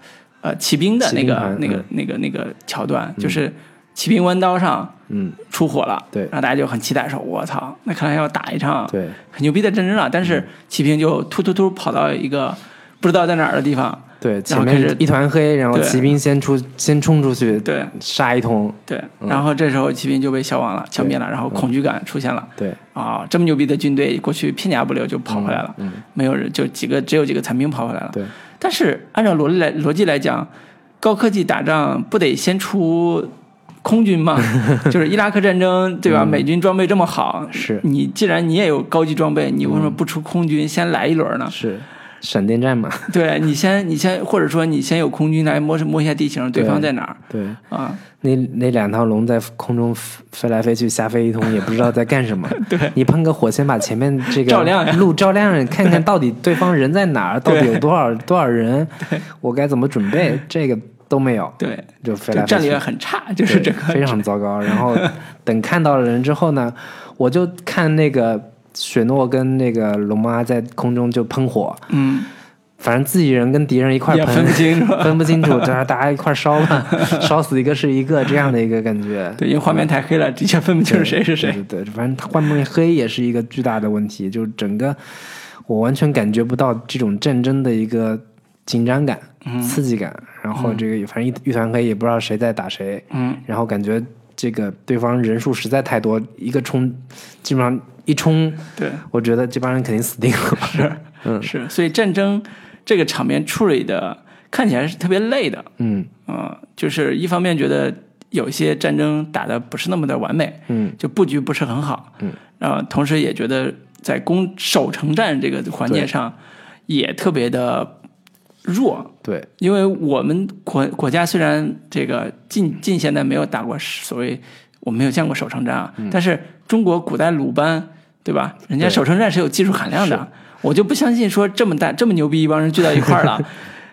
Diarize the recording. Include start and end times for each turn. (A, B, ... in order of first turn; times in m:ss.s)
0:00.4-0:05.0 A
0:01.0-0:01.9 B
0:03.2-0:03.4 B
0:05.1-0:05.4 B
0:05.5-0:15.0 A
0:08.9-0:09.2 B
0:14.2-0:19.4 B
0:15.7-0:16.1 A
0:17.6-0:18.0 A
0:18.9-0:30.5 A
0:21.0-0:21.7 B
0:25.3-0:26.0 B
0:31.0-0:33.3 A
0:33.8-0:41.6 A
0:36.1-0:36.5 B
0:37.5-0:37.8 B
0:39.6-0:40.0 B
0:41.5-0:43.1 B
0:43.1-0:48.0 A
0:46.5-0:47.6 B
0:48.2-1:02.8 B
0:52.5-0:53.0 A
0:54.3-0:55.1 A
0:57.5-0:57.8 A
1:01.6-1:05.1 A
1:03.4-1:11.9 B
1:11.9-1:12.3 A
1:12.8-1:19.9 B
1:14.1-1:15.7 A
1:16.9-1:17.3 A
1:19.4-1:21.6 A
1:20.9-1:41.5 B
1:29.4-1:29.8 A
1:30.6-1:30.8 A
1:33.1-1:33.4 A
1:38.8-1:39.0 A
1:40.6-1:45.7 A
1:45.8-1:46.1 B
1:46.3-1:56.4 A
1:50.7-1:51.0 B
1:56.9-1:57.9 A
1:58.6-2:13.6 A
1:59.2-1:59.5 B
2:10.0-2:10.2 B